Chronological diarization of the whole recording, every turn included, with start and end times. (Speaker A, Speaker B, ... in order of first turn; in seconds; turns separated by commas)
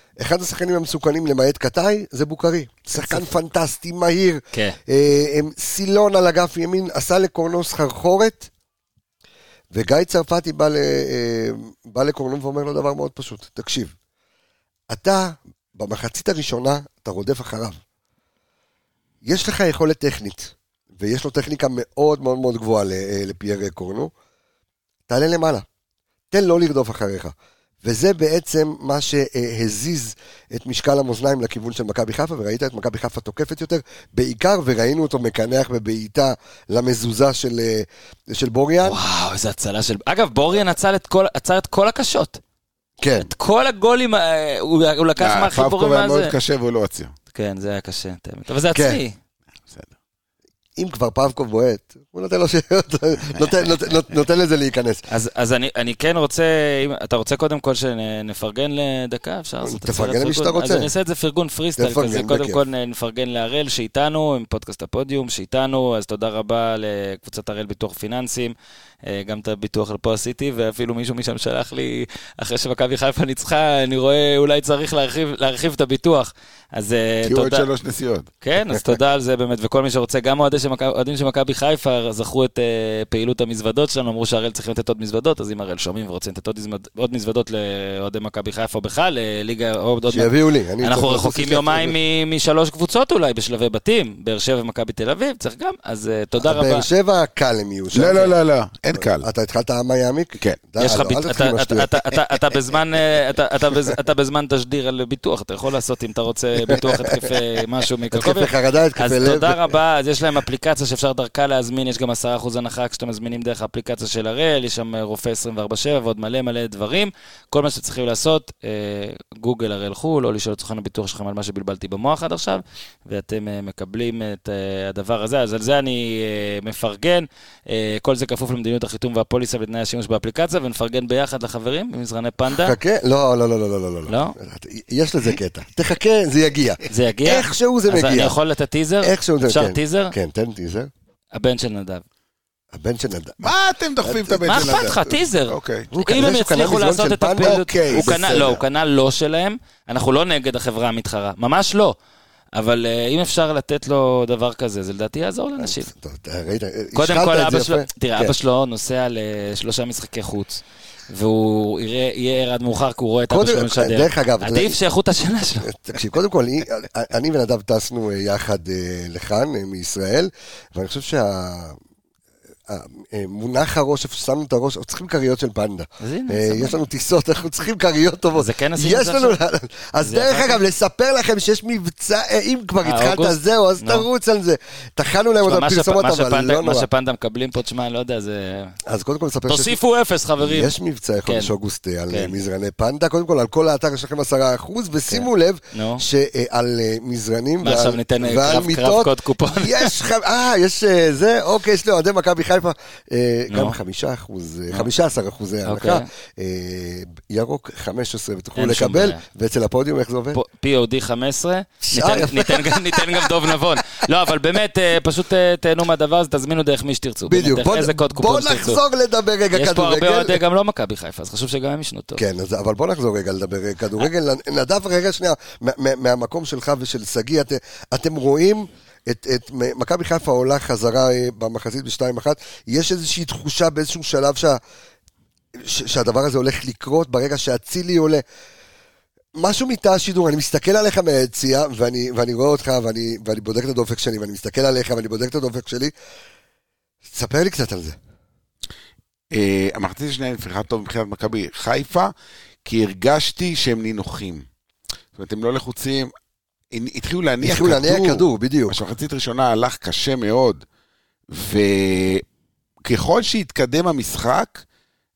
Speaker A: 0.2-8.5, Speaker B: 3.0-3.3, Speaker A: 9.7-13.9, Speaker A: 14.9-17.8, Speaker A: 19.2-24.1, Speaker A: 25.1-25.6, Speaker A: 26.3-39.0, Speaker B: 38.8-42.4, Speaker A: 43.0-43.3, Speaker B: 43.2-46.3, Speaker C: 45.2-47.1, Speaker B: 47.3-49.2, Speaker A: 48.7-49.0, Speaker A: 50.8-55.0, Speaker B: 55.1-77.7, Speaker A: 59.6-60.9, Speaker A: 61.8-62.6, Speaker C: 77.2-78.3, Speaker B: 78.4-96.9, Speaker A: 90.1-92.0, Speaker A: 96.4-98.3, Speaker C: 97.9-99.3, Speaker A: 99.0-102.2, Speaker B: 100.8-132.8, Speaker A: 106.7-107.3, Speaker A: 108.1-109.8, Speaker A: 132.5-138.3, Speaker B: 134.1-134.3, Speaker B: 136.9-140.1, Speaker A: 139.0-140.9, Speaker B: 141.3-142.0, Speaker A: 142.7-145.0, Speaker C: 143.4-145.9, Speaker B: 144.4-152.0, Speaker A: 145.9-148.6, Speaker C: 147.4-148.5, Speaker B: 152.6-155.9, Speaker A: 155.6-158.3, Speaker B: 156.9-165.7, Speaker A: 163.3-164.8, Speaker A: 165.6-171.8, Speaker A: 172.7-186.9, Speaker B: 176.0-176.8, Speaker B: 178.3-179.4, Speaker B: 180.0-180.6, Speaker B: 182.8-184.1, Speaker B: 185.4-188.8, Speaker A: 188.9-189.8, Speaker B: 189.5-190.7, Speaker A: 190.4-210.4, Speaker B: 191.2-191.5, Speaker B: 192.1-192.3, Speaker B: 195.1-196.0, Speaker B: 197.6-199.9, Speaker B: 203.5-203.8, Speaker B: 205.7-206.1, Speaker B: 208.6-209.2, Speaker B: 210.3-218.8, Speaker A: 211.8-213.3, Speaker A: 217.3-220.4, Speaker B: 219.5-222.2, Speaker A: 222.2-234.6, Speaker A: 235.6-238.2, Speaker A: 239.4-245.9, Speaker A: 247.0-248.0, Speaker C: 249.3-252.1, Speaker C: 252.7-254.4, Speaker C: 255.2-256.1, Speaker C: 256.7-260.6, Speaker A: 257.4-258.8, Speaker C: 261.3-262.2, Speaker C: 262.9-264.6